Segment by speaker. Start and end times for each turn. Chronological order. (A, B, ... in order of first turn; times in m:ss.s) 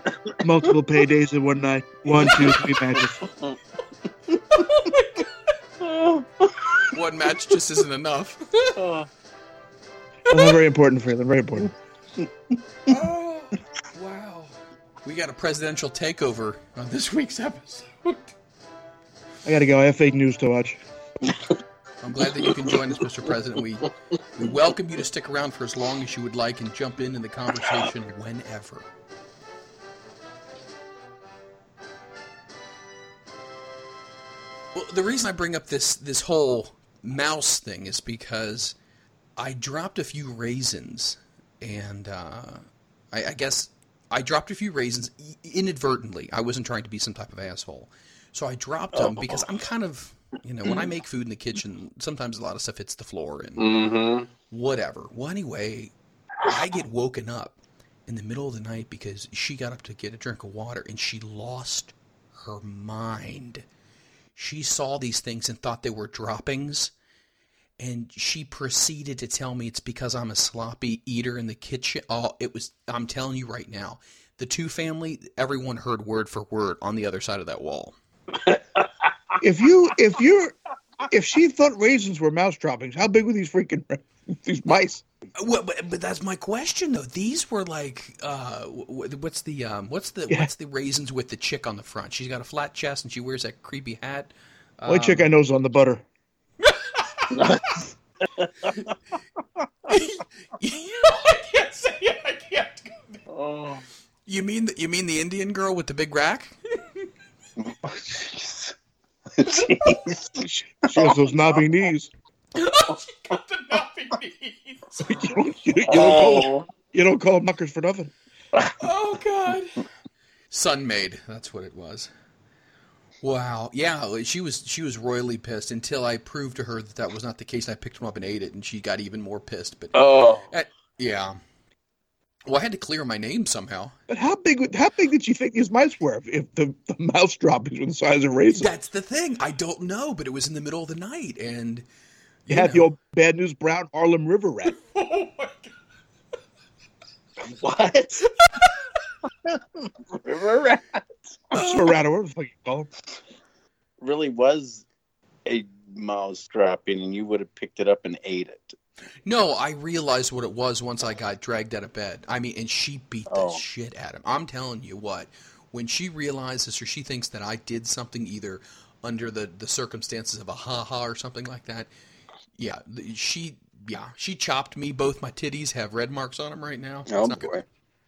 0:00.4-0:03.2 A
0:02.2-0:03.5 B
0:04.5-0:05.3 C
0:05.8-0:06.9 B
0:06.9-0:08.8 C
0:08.8-0:09.1 B
0:10.3-0:10.6 C
0:10.3-0:11.7 A
0:12.9-0:18.3 C
0:19.4-0:20.8 A
0:22.0-0:28.9 C
0:34.7-0:38.8 C
0:39.4-0:53.8 C
0:49.0-0:49.5 B
0:53.6-0:54.3 B
0:54.5-0:55.9 C
0:56.4-1:03.6 C
1:04.4-1:06.9 C
1:07.8-1:17.9 C
1:18.4-1:18.9 B
1:19.4-1:25.0 A
1:25.4-1:35.3 C
1:34.9-1:36.0 A
1:36.6-1:37.8 C
1:37.3-1:37.8 B
1:38.4-1:38.7 B
1:39.9-1:43.2 C
1:43.3-1:43.8 B
1:44.2-1:46.5 C
1:47.6-1:48.8 B
1:49.4-1:51.1 B
1:50.4-1:52.1 A
1:52.5-1:55.2 C
1:55.0-1:58.1 A
1:55.9-1:56.6 B
1:58.8-1:59.8 C
2:00.5-2:02.1 C
2:03.2-2:11.4 C
2:09.9-2:10.5 B
2:12.5-2:13.9 C
2:14.1-2:18.7 A
2:18.5-2:21.8 C
2:22.5-2:22.9 C
2:22.5-2:24.8 A
2:24.8-2:25.7 C
2:27.4-2:28.2 B
2:29.5-2:31.1 B
2:31.5-2:31.9 C
2:31.5-2:32.9 A
2:34.0-2:34.8 B
2:35.4-2:38.8 B
2:39.2-2:51.9 C
2:43.3-2:43.6 B
2:52.6-2:57.5 C
2:57.1-2:57.6 B